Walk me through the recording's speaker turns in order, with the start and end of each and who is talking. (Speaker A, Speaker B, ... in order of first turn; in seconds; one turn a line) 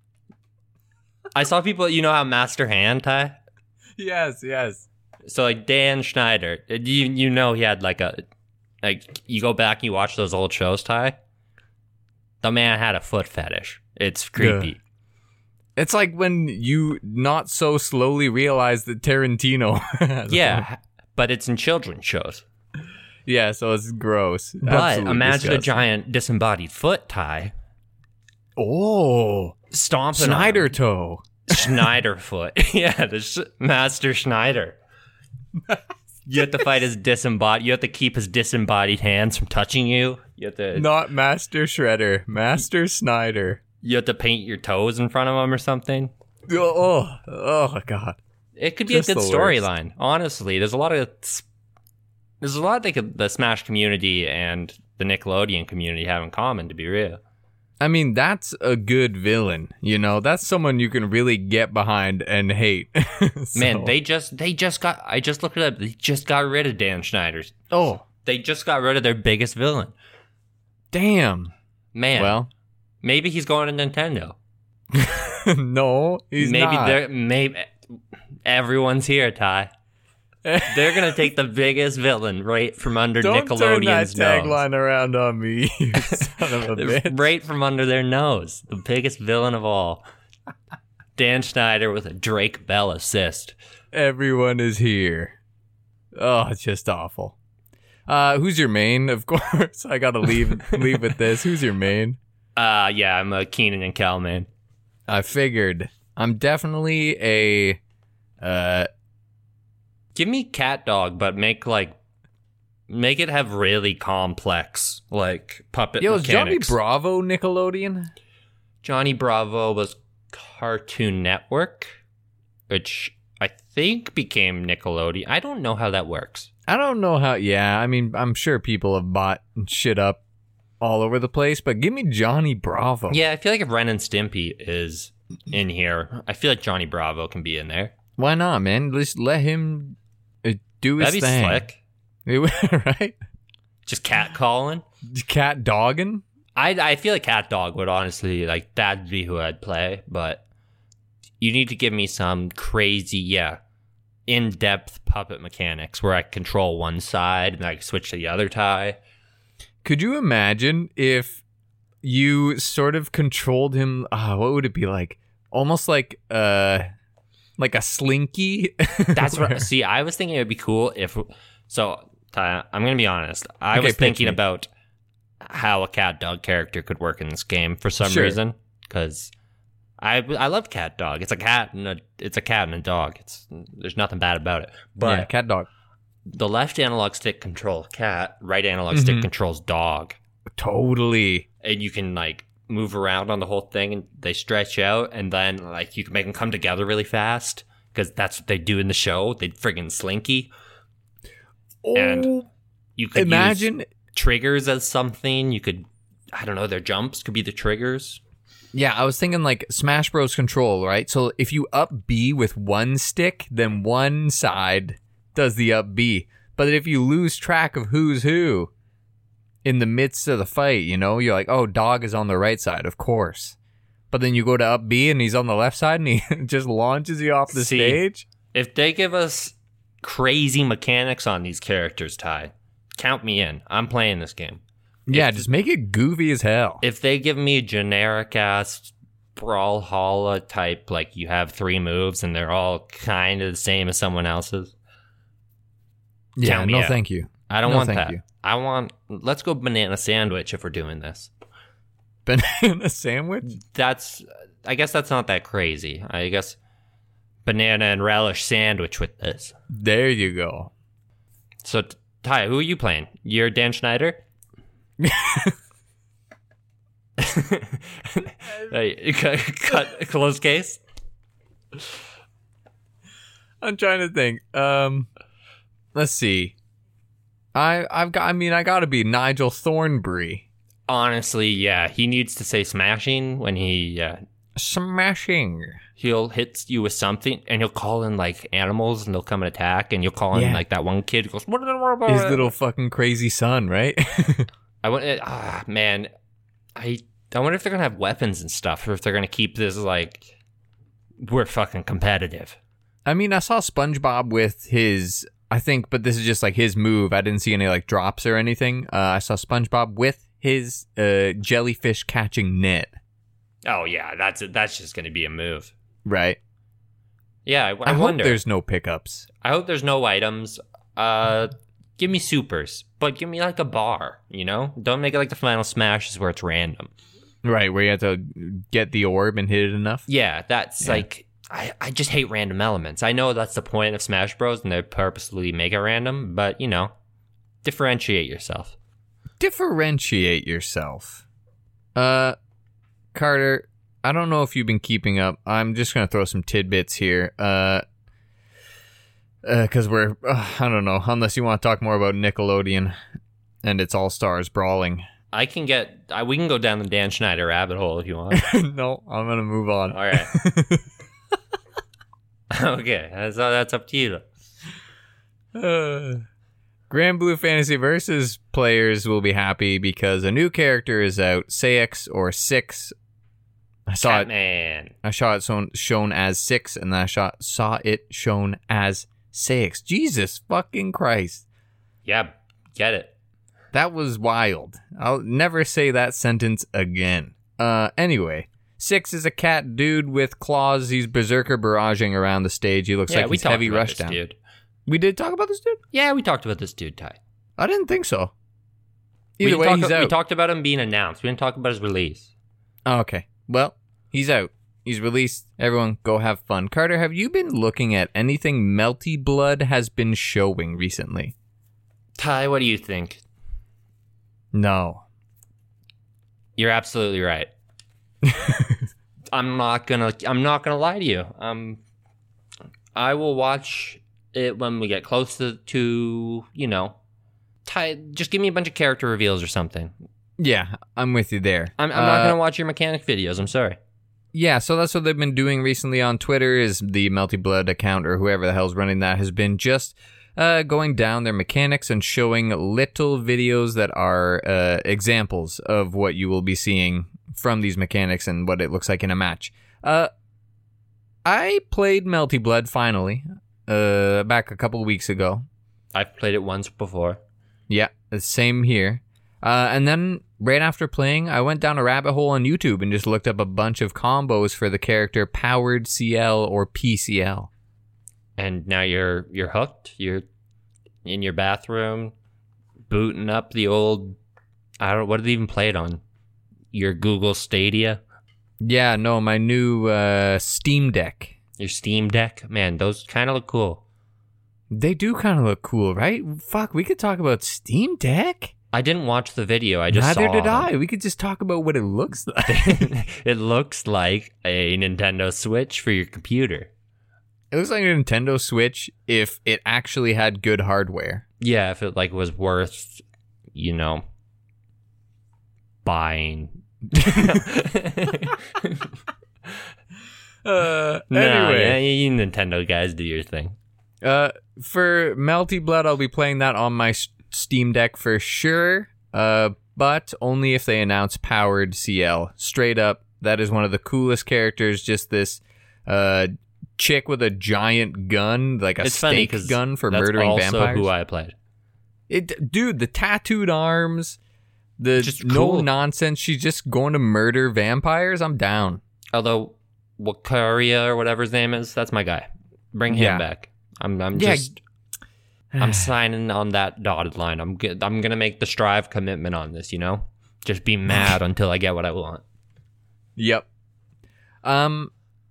Speaker A: 1.3-3.4
Speaker B: 4.0-4.9
Speaker A: 5.3-8.2
Speaker A: 8.8-11.2
Speaker A: 12.4-14.8
Speaker B: 14.4-14.7
Speaker B: 15.8-20.7
Speaker A: 20.3-22.4
Speaker B: 23.3-25.8
Speaker A: 24.6-27.5
Speaker B: 28.6-29.6
Speaker A: 29.7-30.7
Speaker B: 30.1-31.8
Speaker A: 31.5-34.8
Speaker A: 36.3-40.9
Speaker B: 40.8-43.6
Speaker A: 43.8-46.1
Speaker B: 46.5-48.2
Speaker A: 48.6-51.5
Speaker B: 48.9-49.6
Speaker A: 52.4-57.2
Speaker B: 57.8-63.9
Speaker A: 63.5-67.6
Speaker B: 67.7-68.0
Speaker A: 68.2-69.9
Speaker B: 70.9-71.5
Speaker A: 71.9-72.4
Speaker B: 72.2-72.5
Speaker A: 73.0-74.4
Speaker B: 74.9-77.0
Speaker A: 76.4-77.7
Speaker A: 78.5-79.7
Speaker B: 80.5-81.2
Speaker A: 80.6-84.6
Speaker B: 83.2-87.2
Speaker A: 86.0-90.0
Speaker A: 91.2-93.5
Speaker B: 93.9-95.4
Speaker B: 96.2-97.3
Speaker B: 98.1-102.2
Speaker A: 102.6-104.5
Speaker B: 105.1-107.8
Speaker B: 108.4-108.9
Speaker A: 110.2-112.0
Speaker A: 112.9-116.8
Speaker B: 116.0-118.1
Speaker A: 118.8-122.0
Speaker A: 122.7-126.5
Speaker B: 126.7-130.2
Speaker B: 130.8-133.2
Speaker A: 133.1-137.9
Speaker B: 138.2-141.7
Speaker A: 141.0-141.8
Speaker B: 142.3-143.2
Speaker A: 143.9-144.8
Speaker B: 145.1-146.2
Speaker A: 146.6-150.4
Speaker A: 151.4-153.6
Speaker A: 154.3-159.0
Speaker B: 159.8-161.4
Speaker B: 162.0-166.9
Speaker B: 167.6-169.7
Speaker A: 169.1-174.7
Speaker B: 173.7-174.4
Speaker A: 175.4-179.3
Speaker B: 178.0-178.4
Speaker A: 180.0-185.3
Speaker B: 185.0-185.7
Speaker A: 186.3-190.2
Speaker B: 188.9-189.3
Speaker B: 190.6-191.5
Speaker A: 191.6-200.5
Speaker B: 201.8-202.5
Speaker A: 201.9-202.3
Speaker A: 203.0-208.2
Speaker B: 203.2-203.9
Speaker B: 208.7-218.7
Speaker B: 219.6-223.6
Speaker B: 224.1-228.3
Speaker A: 227.5-234.6
Speaker B: 235.1-236.8
Speaker A: 235.1-235.5
Speaker A: 236.8-244.7
Speaker B: 246.4-248.2
Speaker A: 246.4-251.3
Speaker B: 252.3-253.6
Speaker A: 253.6-256.6
Speaker A: 257.4-259.6
Speaker B: 259.7-260.7
Speaker A: 261.6-264.2
Speaker B: 265.0-265.6
Speaker A: 267.2-270.8
Speaker B: 273.6-275.1
Speaker B: 275.9-276.5
Speaker B: 277.5-280.4
Speaker A: 280.9-284.2
Speaker B: 284.6-285.8
Speaker A: 286.0-292.5
Speaker B: 290.3-290.6
Speaker B: 292.1-294.5
Speaker A: 294.8-296.1
Speaker A: 296.8-300.3
Speaker A: 301.2-302.6
Speaker B: 303.1-312.9
Speaker A: 313.7-315.7
Speaker B: 316.1-316.4
Speaker A: 317.4-318.4
Speaker B: 317.9-319.3
Speaker A: 319.4-326.9
Speaker B: 327.4-330.1
Speaker A: 330.1-336.9
Speaker A: 337.6-338.8
Speaker B: 339.4-341.2
Speaker B: 341.9-342.4
Speaker B: 343.1-347.8
Speaker B: 349.4-352.9
Speaker B: 353.6-355.1
Speaker A: 355.3-358.5
Speaker B: 358.3-360.8
Speaker A: 359.9-360.3
Speaker A: 362.5-364.2
Speaker B: 365.6-366.2
Speaker B: 366.9-372.9
Speaker B: 373.9-374.3
Speaker A: 374.0-374.9
Speaker B: 375.0-381.5
Speaker A: 382.1-383.1
Speaker B: 383.7-394.2
Speaker A: 393.1-394.4
Speaker B: 394.9-395.8
Speaker A: 395.9-397.2
Speaker B: 397.6-398.3
Speaker B: 399.4-400.2
Speaker A: 399.4-402.3
Speaker B: 402.9-411.3
Speaker A: 412.2-413.2
Speaker B: 414.5-415.1
Speaker A: 416.6-417.5
Speaker B: 418.2-418.9
Speaker A: 419.3-421.8
Speaker A: 422.9-426.9
Speaker A: 427.6-429.9
Speaker B: 430.4-432.4
Speaker A: 431.8-433.8
Speaker B: 434.3-450.1
Speaker B: 451.2-455.5
Speaker A: 455.9-457.2
Speaker B: 457.7-467.5
Speaker A: 468.4-470.3
Speaker A: 471.1-472.1
Speaker A: 472.9-474.2
Speaker A: 474.8-476.0
Speaker A: 476.7-478.0
Speaker B: 478.6-481.4
Speaker A: 481.6-483.8
Speaker B: 484.7-488.5
Speaker A: 488.7-490.7
Speaker B: 489.9-492.9
Speaker A: 492.5-496.7
Speaker B: 497.5-501.2
Speaker A: 501.4-503.0
Speaker A: 503.5-504.0
Speaker A: 505.8-508.9
Speaker B: 507.0-507.4
Speaker B: 510.4-511.8
Speaker A: 511.1-513.6
Speaker B: 514.0-530.9
Speaker A: 528.8-531.4
Speaker B: 532.1-534.2
Speaker B: 534.8-538.8
Speaker A: 535.0-535.7
Speaker A: 539.1-544.6
Speaker B: 542.9-543.2
Speaker B: 544.1-544.5
Speaker B: 545.5-545.9
Speaker A: 545.6-552.2
Speaker B: 550.9-551.2
Speaker B: 553.2-553.5
Speaker B: 554.4-554.9